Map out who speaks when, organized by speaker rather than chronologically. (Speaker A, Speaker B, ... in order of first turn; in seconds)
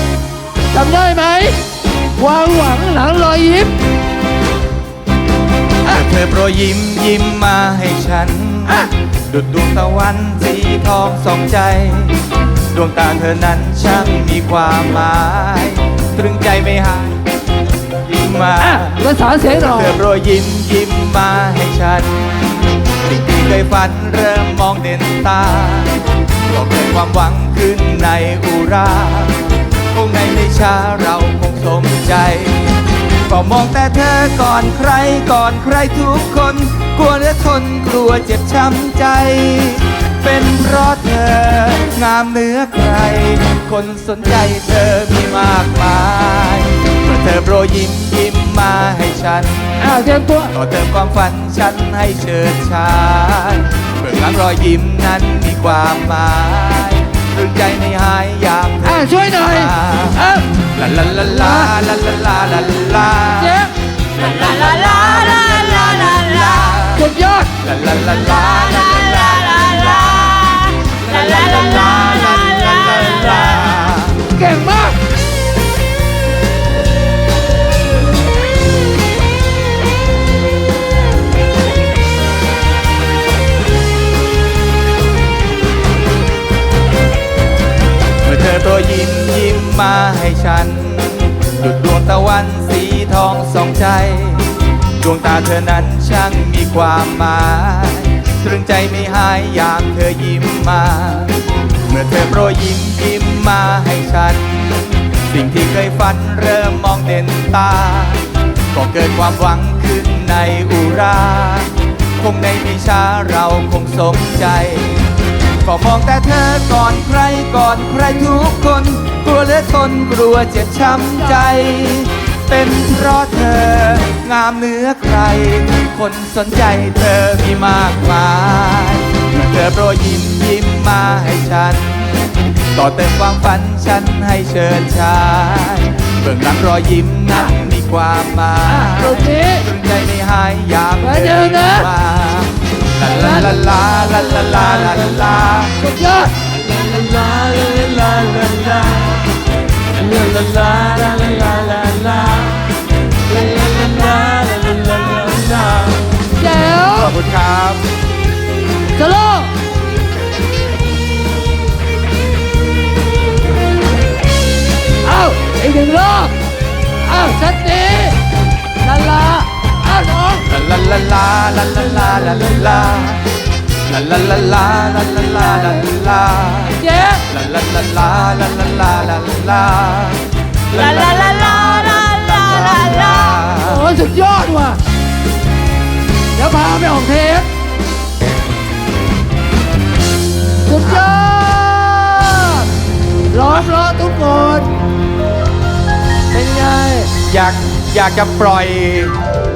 Speaker A: 0.7-1.6, 2.2-3.7, 18.6-20.0, 49.8-50.5, 58.8-60.5, 61.3-61.7, 63.4-63.7, 66.9-67.5, 74.3-75.0, 138.7-139.6, 141.0-141.9, 143.1-143.6, 145.8-146.3, 156.3-157.1, 158.9-159.5, 165.0-166.3, 167.0-168.2, 168.8-170.5, 176.7-177.2, 183.6-184.8, 186.3-187.5, 190.6-192.7, 193.3-194.8, 196.3-197.1
Speaker B: 5.8-17.3, 18.0-32.8, 33.3-49.8, 50.5-67.1, 67.6-74.2, 88.2-115.0, 115.6-145.8, 146.8-149.2, 150.0-152.7, 153.3-156.0, 156.9-157.9, 170.4-173.2, 173.9-183.9, 197.1-199.2